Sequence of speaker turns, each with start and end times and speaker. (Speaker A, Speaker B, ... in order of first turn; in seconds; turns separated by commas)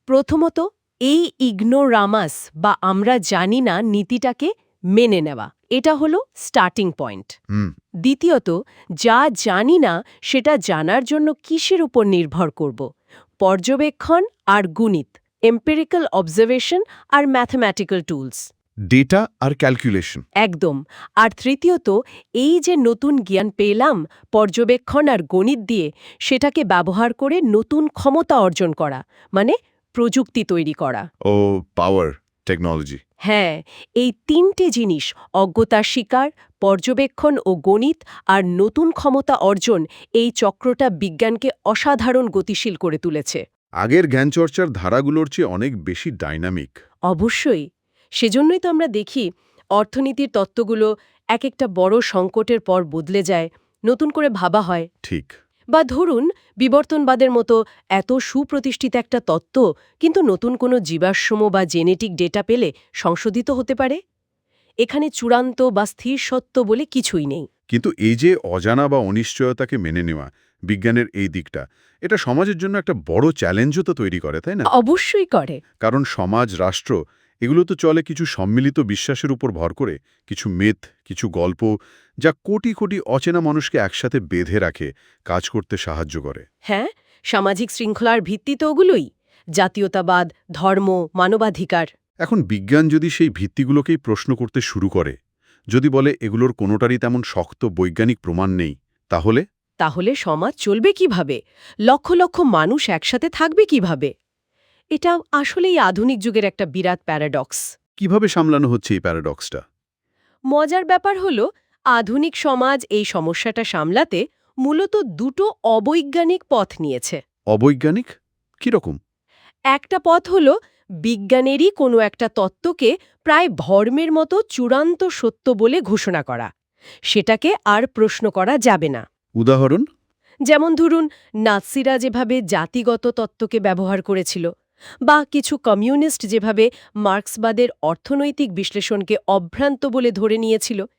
Speaker A: 0.1-7.3, Speaker A: 8.0-12.8, Speaker A: 13.4-18.5, Speaker B: 18.9-20.2, Speaker A: 20.4-31.0, Speaker B: 31.3-33.0, Speaker A: 33.2-43.4, Speaker B: 43.8-46.7, Speaker A: 47.1-47.6, Speaker A: 48.2-49.2, Speaker A: 49.8-54.9, Speaker B: 55.0-55.3, Speaker A: 55.7-64.0, Speaker A: 64.8-67.5, Speaker B: 67.7-74.7, Speaker A: 74.7-75.6, Speaker B: 75.8-81.7, Speaker B: 82.2-86.4, Speaker A: 86.7-89.1, Speaker A: 89.6-91.9, Speaker B: 92.2-95.2, Speaker B: 95.7-99.4, Speaker A: 99.8-104.1, Speaker A: 105.0-107.6, Speaker B: 108.0-109.6, Speaker A: 110.5-117.2, Speaker B: 117.5-119.0, Speaker A: 119.7-120.5, Speaker A: 121.0-126.5, Speaker A: 127.1-129.0, Speaker B: 129.4-129.8, Speaker A: 130.5-134.4, Speaker A: 135.1-140.8